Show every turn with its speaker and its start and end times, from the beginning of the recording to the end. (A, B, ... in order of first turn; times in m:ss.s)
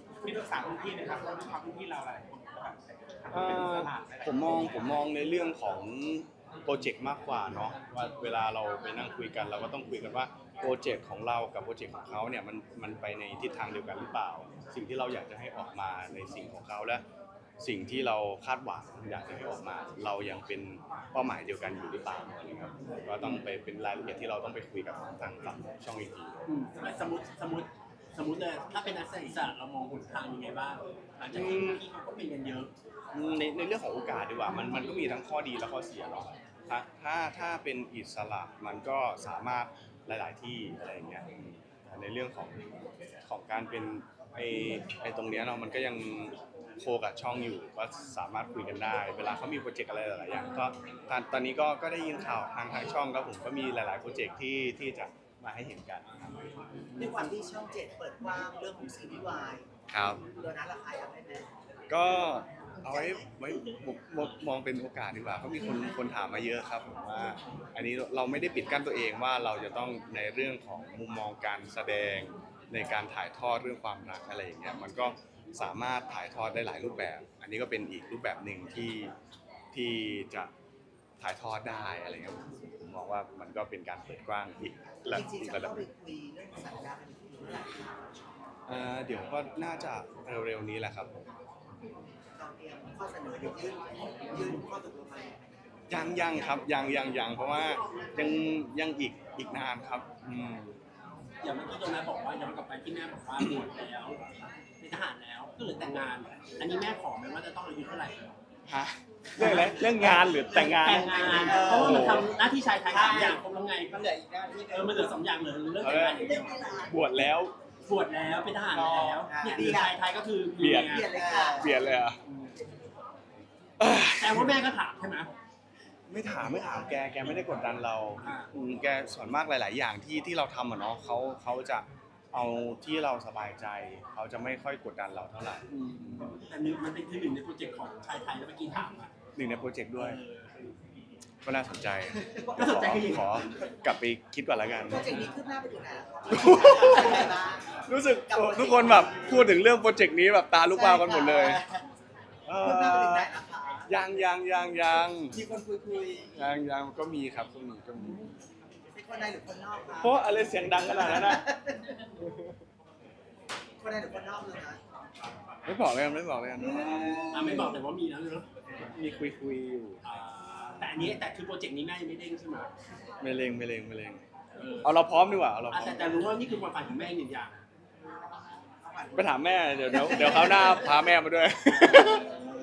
0:00.2-0:04.9 A
0:03.3-0:17.0 B
0:17.6-0:26.5 B
0:23.2-0:23.5 C
0:26.5-0:32.7 C
0:31.3-0:31.8 B
0:33.1-0:56.2 B
0:57.0-0:59.7 D
0:59.9-1:00.2 B
1:00.2-1:01.4 D
1:01.9-1:19.1 B
1:02.8-1:03.3 D
1:05.5-1:06.0 D
1:19.7-1:20.5 B
1:21.2-1:25.9 B
1:25.0-1:27.9 D
1:28.7-1:31.2 B
1:32.4-1:33.8 D
1:34.3-1:36.8 D
1:35.9-1:40.8 B
1:41.4-1:44.3 C
1:44.8-1:48.3 C
1:48.7-1:52.3 B
1:49.4-1:52.3 D
1:49.5-1:54.0 C
1:52.9-1:53.4 A
1:53.0-1:53.3 D
1:53.9-1:55.1 A
1:54.7-1:56.6 C
1:55.8-1:56.3 B
1:56.2-1:57.0 D
1:56.9-1:57.5 B
1:57.8-2:01.2 C
1:58.7-1:59.2 A
1:59.2-2:00.0 D
2:00.6-2:02.2 B
2:00.9-2:02.0 D
2:01.3-2:01.6 A
2:02.2-2:02.5 C
2:02.6-2:02.8 D
2:03.8-2:04.6 B
2:03.8-2:05.3 C
2:06.1-2:16.4 B
2:08.2-2:08.5 C
2:15.7-2:19.1 C
2:19.4-2:20.2 B
2:20.0-2:20.7 C
2:21.4-2:25.2 B
2:22.3-2:22.8 D
2:22.6-2:23.5 C
2:24.8-2:29.5 D
2:25.0-2:25.4 C
2:26.3-2:31.6 B
2:30.7-2:31.8 D
2:32.5-2:33.3 B
2:32.6-2:33.9 D
2:33.9-2:35.4 B
2:35.3-2:36.3 D
2:36.3-2:38.2 B
2:38.0-2:38.3 D
2:38.9-2:42.0 D
2:40.0-2:41.5 B
2:42.2-2:42.6 B
2:43.8-2:44.8 D
2:45.7-2:47.8 B
2:46.6-2:47.8 D
2:47.3-2:48.5 C
2:48.9-2:50.0 B
2:50.0-2:52.7 C
2:53.2-2:54.2 B
2:54.5-2:54.9 C
2:54.8-2:56.3 B
2:55.7-2:57.6 C
2:58.8-3:01.1 D
2:59.1-3:02.3 B
3:01.7-3:02.0 C
3:01.9-3:02.5 D